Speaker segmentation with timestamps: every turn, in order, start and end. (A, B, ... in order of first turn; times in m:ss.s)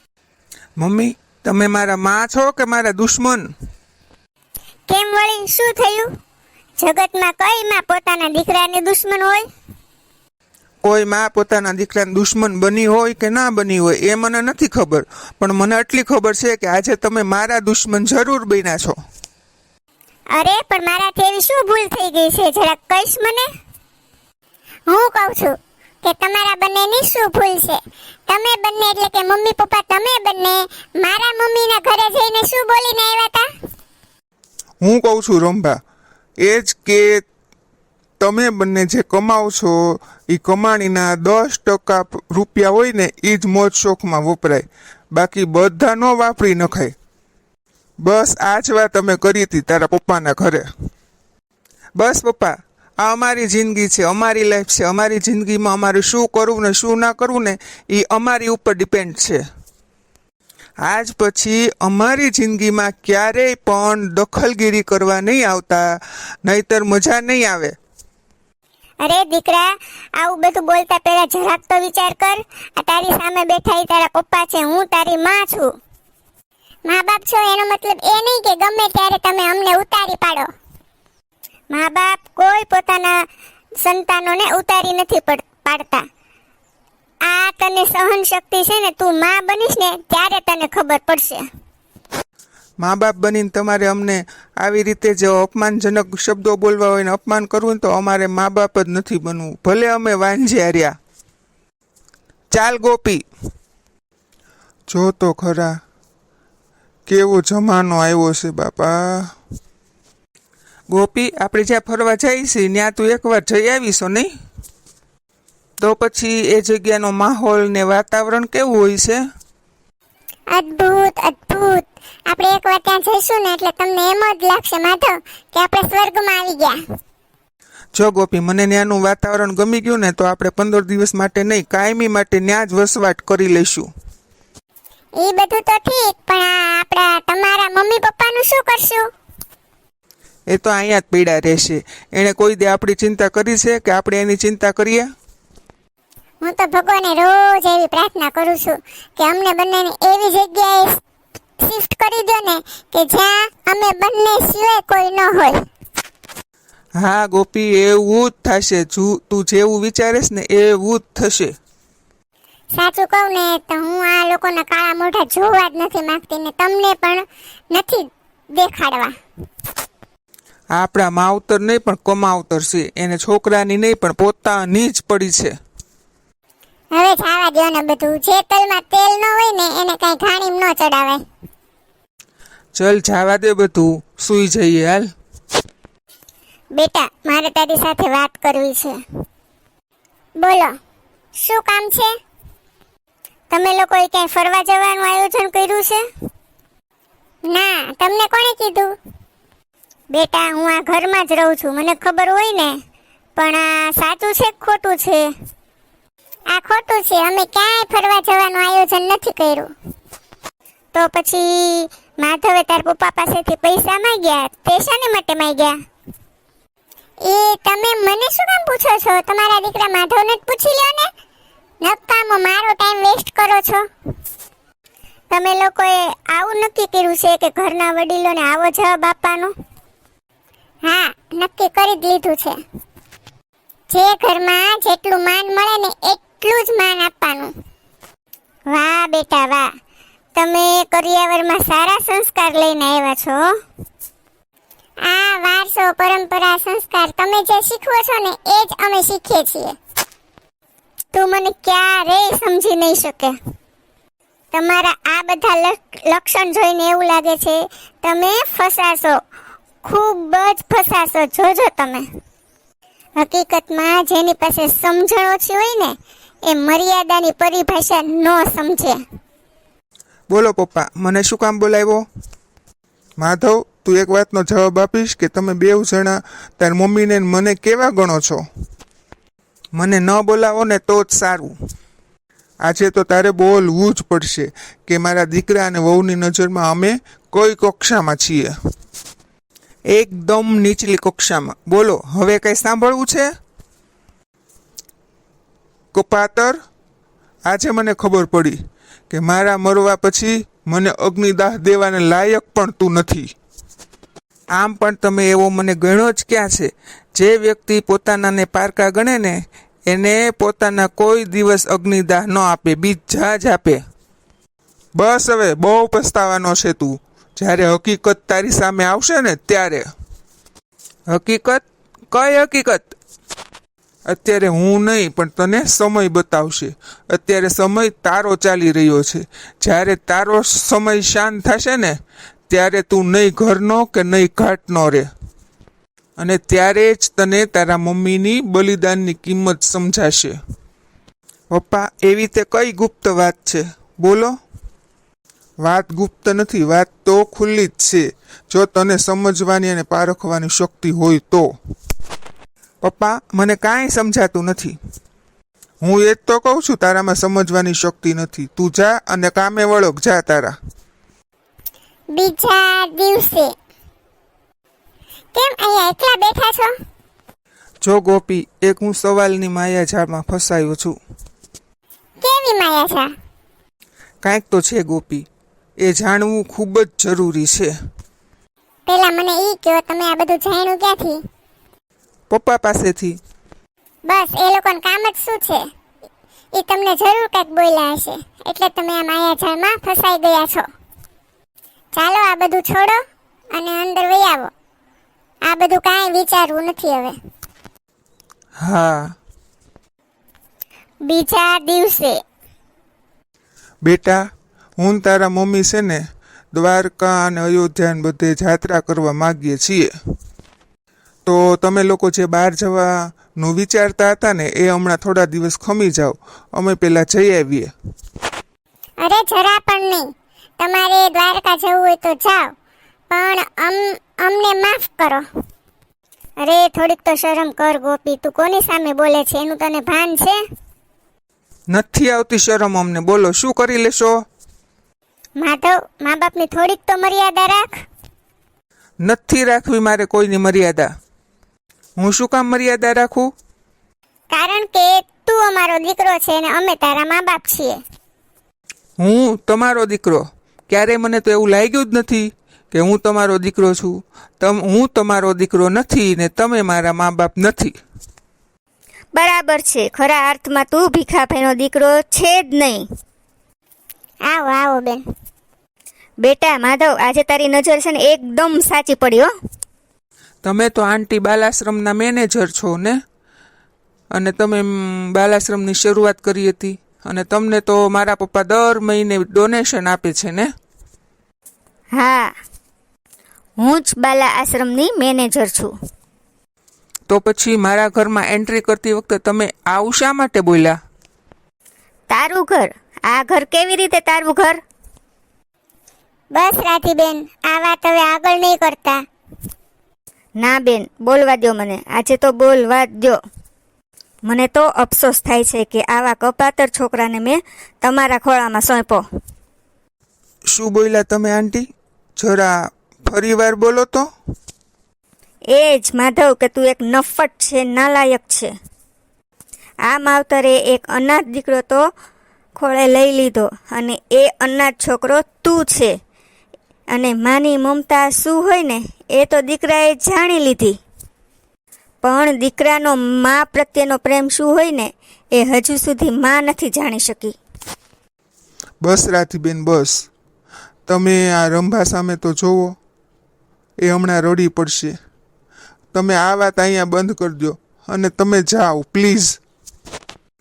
0:00.8-0:03.5 A
0:04.9-0:06.1 B
0:06.8-0:09.4 B
0:10.8-0:19.0 A
0:20.3-0:23.5 B
0:24.9-0:33.5 B
0:34.8-0:35.8 A
0:36.4-0:37.2 A
0:38.2-0:39.8 A
0:40.3-0:46.9 A
0:48.0-0:50.7 A
0:52.0-0:59.4 A
1:00.8-1:05.9 A
1:06.4-1:07.7 A
1:09.0-1:15.7 B
1:16.8-1:20.5 B
1:21.7-1:23.2 B
1:23.8-1:26.0 B
1:27.2-1:31.5 B
1:32.8-1:40.9 A
1:42.5-1:43.2 A
1:44.9-1:45.7 A
1:47.1-1:49.3 A
1:50.9-1:54.3 A
1:55.8-1:59.2 A
2:00.5-2:06.8 B
2:07.9-2:13.9 A
2:15.2-2:19.1 B
2:20.5-2:25.1 A
2:26.4-2:31.0 B
2:31.6-2:35.6 B
2:37.0-2:41.5 A
2:42.7-2:49.1 B
2:50.7-2:55.5 A
2:56.9-3:01.2 B
3:02.8-3:05.1 A
3:06.7-3:09.0 B
3:10.4-3:10.8 B
3:11.3-3:12.1 B
3:13.5-3:16.0 B
3:17.5-3:18.9 B
3:20.1-3:22.8 B
3:23.4-3:25.3 B
3:26.5-3:29.7 B
3:30.9-3:35.8 B
3:37.2-3:41.1 B
3:41.8-3:43.8 B
3:45.3-3:49.5 B
3:50.8-3:52.6 B
3:53.9-3:57.5 B
3:58.7-3:59.7 B
4:00.4-4:03.5 B
4:05.0-4:09.8 B
4:11.1-4:13.4 B
4:14.5-4:19.2 B
4:19.8-4:22.1 B
4:23.2-4:25.9 B
4:26.5-4:29.0 B
4:30.3-4:32.0 A
4:33.2-4:38.4 A
4:39.7-4:41.5 A
4:42.6-4:48.5 A
4:49.9-4:53.3 A
4:55.9-4:56.6 A
4:57.5-4:58.6 A
4:59.1-5:03.3 A
5:04.6-5:13.8 A
5:15.0-5:19.8 A
5:21.1-5:22.9 A
5:24.1-5:31.9 A
5:32.5-5:35.1 A
5:36.2-5:40.4 A
5:41.5-5:44.3 A
5:45.6-5:51.5 A
5:52.8-5:54.8 A
5:55.8-6:00.5 A
6:02.1-6:03.5 B
6:05.3-6:06.7 B
6:07.8-6:10.9 A
6:12.2-6:13.1 B
6:14.2-6:15.2 A
6:15.8-6:17.7 A
6:18.9-6:21.2 B
6:22.3-6:23.2 A
6:24.1-6:25.6 B
6:26.5-6:30.7 B
6:31.9-6:33.0 B
6:33.5-6:34.5 B
6:35.5-6:37.2 B
6:38.6-6:39.1 A
6:41.0-6:42.2 B
6:43.8-6:44.2 A
6:44.8-6:46.0 A
6:46.5-6:49.9 A
6:51.2-6:57.7 A
6:59.0-7:00.1 B
7:00.6-7:02.5 B
7:03.1-7:05.2 B
7:06.4-7:10.4 B
7:11.7-7:14.2 A
7:15.4-7:17.8 B
7:19.0-7:20.9 A
7:22.0-7:23.3 A
7:24.3-7:27.8 B
7:29.0-7:37.7 A
7:39.1-7:42.8 C
7:44.3-7:45.0 B
7:46.2-7:49.3 C
7:50.4-7:53.0 A
7:54.1-8:00.5 A
8:02.0-8:02.3 C
8:03.6-8:05.7 C
8:07.1-8:10.8 A
8:12.1-8:14.6 C
8:16.3-8:19.0 B
8:20.4-8:23.2 C
8:24.3-8:29.0 C
8:30.5-8:31.6 A
8:32.2-8:32.5 A
8:33.0-8:34.0 A
8:35.5-8:38.5 C
8:39.9-8:41.8 C
8:42.6-8:45.9 C
8:46.9-8:50.7 C
8:52.0-8:57.3 C
8:58.8-9:00.1 A
9:00.9-9:02.7 A
9:03.8-9:04.9 A
9:05.9-9:09.4 A